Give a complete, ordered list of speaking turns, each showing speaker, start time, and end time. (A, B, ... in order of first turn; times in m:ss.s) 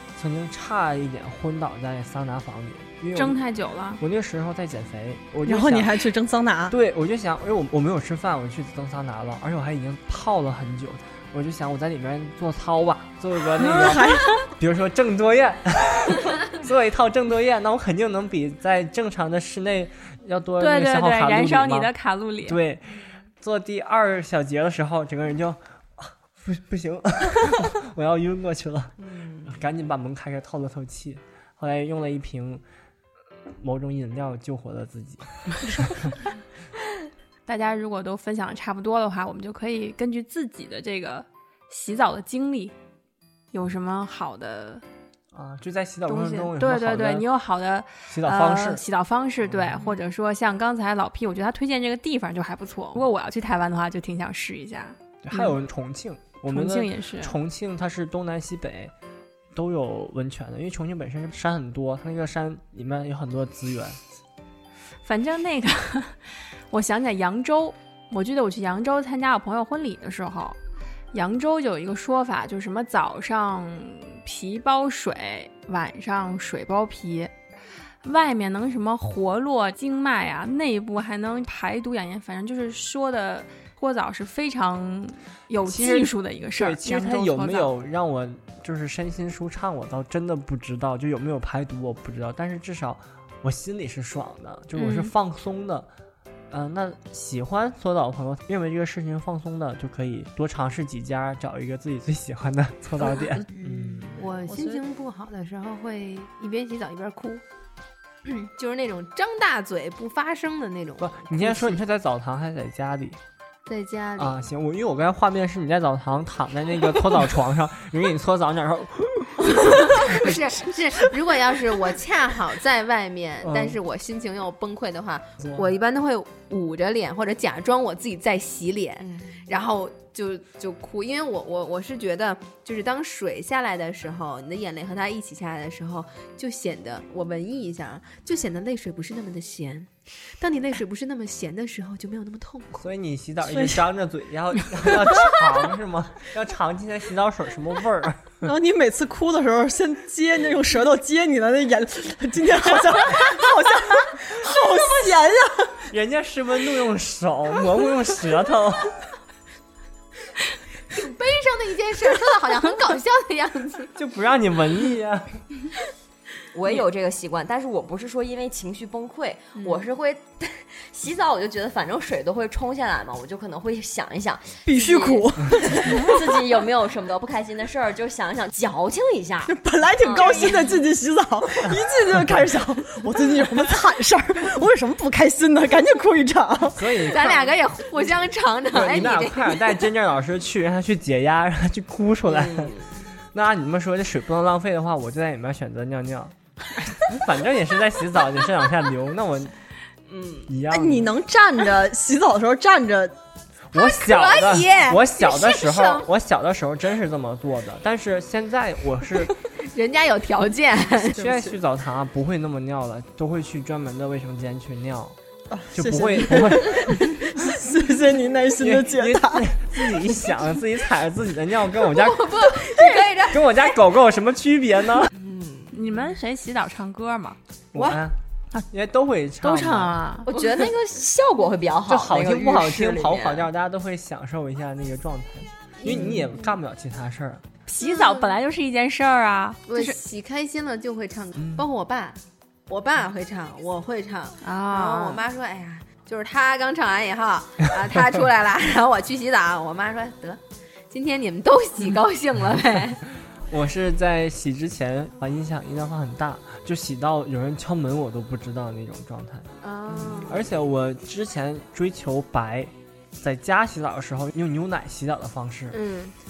0:00.2-0:03.4 A
0:03.2-0:04.0 B
0:04.0-0:06.0 A
0:05.4-0:06.7 C
0:06.7-0:21.9 A
0:13.6-0:14.4 C
0:13.6-0:14.4 B
0:20.6-0:22.6 B
0:22.4-0:32.6 A
0:29.1-0:29.5 D
0:33.6-0:36.1 A
0:37.5-0:42.7 B
0:43.5-0:44.8 B
0:45.3-0:47.3 A
0:46.1-0:55.5 B
0:48.1-0:48.8 A
0:49.4-0:49.9 A
0:55.2-0:58.9 A
0:56.5-0:57.4 B
0:59.5-1:04.0 A
1:05.0-1:06.2 B
1:06.7-1:10.6 B
1:11.1-1:17.3 B
1:18.0-1:27.7 B
1:25.6-1:35.9 A
1:34.7-1:35.1 B
1:36.5-1:44.2 A
1:43.2-1:43.8 C
1:44.2-1:47.4 E
1:44.4-1:44.8 C
1:48.2-1:51.8 E
1:51.0-1:53.2 A
1:53.6-1:54.4 E
1:54.2-2:00.5 A
1:59.4-2:22.9 E
2:03.4-2:03.8 A
2:05.4-2:05.7 A
2:09.1-2:09.4 D
2:22.8-2:28.4 A
2:23.6-2:23.8 C
2:28.4-2:35.8 C
2:35.9-2:38.9 A
2:40.9-2:43.9 E
2:43.9-2:45.4 A
2:46.5-3:00.8 D
2:49.6-2:49.8 E
2:54.6-2:56.5 C
2:59.4-3:07.1 C
3:00.0-3:00.7 E
3:06.7-3:07.4 A
3:07.0-3:09.9 E
3:08.7-3:12.8 A
3:12.2-3:13.0 D
3:13.3-3:16.3 A
3:16.9-3:19.5 A
3:20.1-3:20.5 D
3:20.5-3:21.1 A
3:20.7-3:23.1 C
3:23.7-3:29.3 A
3:23.7-3:26.1 E
3:29.2-3:31.2 E
3:31.2-3:35.2 A
3:31.2-3:31.6 C
3:35.5-3:39.5 C
3:35.7-3:37.3 A
3:38.6-3:42.5 A
3:41.8-3:43.6 E
3:43.2-3:45.1 A
3:45.1-3:45.8 D
3:45.7-3:47.4 B
3:47.7-3:48.2 A
3:48.7-3:50.0 A
3:49.4-3:50.3 B
3:50.2-3:53.5 D
3:50.4-3:50.6 E
3:51.9-3:57.4 A
3:55.8-3:56.3 E
3:55.9-3:56.2 D
3:57.7-4:00.0 B
3:57.8-3:58.3 E
3:59.7-4:13.0 E
4:01.4-4:01.6 A
4:04.4-4:05.2 B
4:13.5-4:19.5 A
4:19.6-4:20.4 E
4:20.0-4:20.3 D
4:20.2-4:25.8 A
4:25.7-4:26.1 E